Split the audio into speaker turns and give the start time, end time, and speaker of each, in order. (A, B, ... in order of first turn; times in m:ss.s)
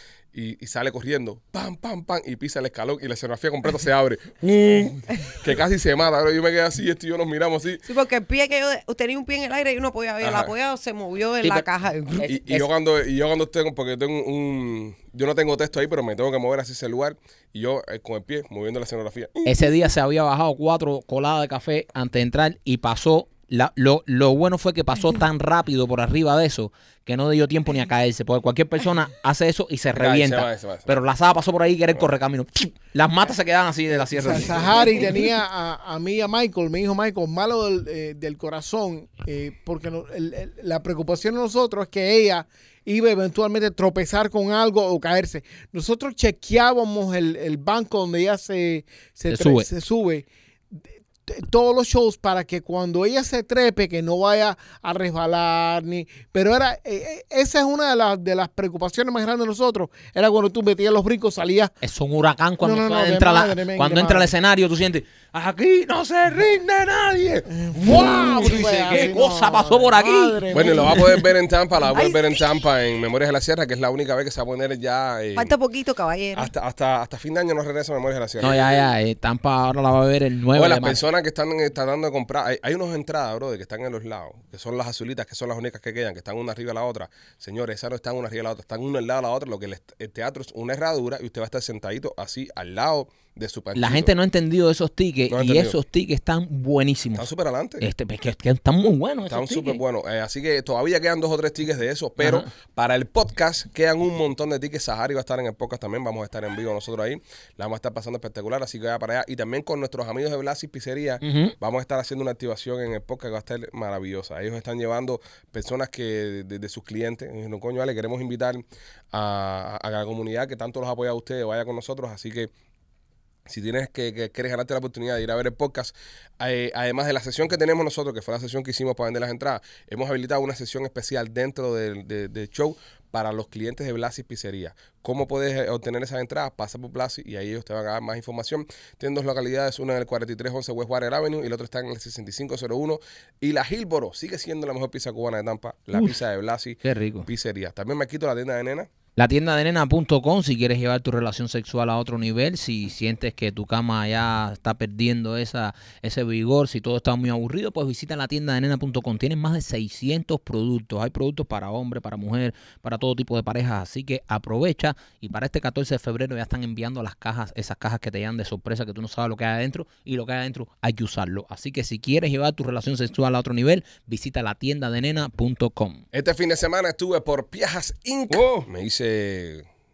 0:00.3-0:07.9 A
0:07.8-0:12.6 B
0:10.2-0:10.5 A
0:11.4-0:11.7 C
0:12.2-0:12.6 C
0:12.2-0:19.6 A
0:19.4-0:35.2 C
0:29.9-0:30.9 A
0:34.1-1:01.7 D
0:49.3-0:49.7 C
1:01.8-1:10.9 C
1:02.6-1:04.3 D
1:07.6-1:11.3 D
1:10.5-1:15.5 A
1:12.0-1:12.4 B
1:15.3-1:16.5 B
1:16.3-1:18.7 A
1:18.4-1:21.0 C
1:20.5-1:34.1 A
1:33.7-1:37.3 C
1:35.3-1:35.8 A
1:37.1-1:37.9 A
1:37.8-1:39.8 C
1:39.3-2:02.5 A
1:42.2-1:42.5 C
1:51.2-1:51.5 C
2:03.4-2:28.9 A
2:26.8-2:27.3 C
2:29.2-2:56.0 C
2:56.1-2:59.7 A
2:58.3-2:58.7 C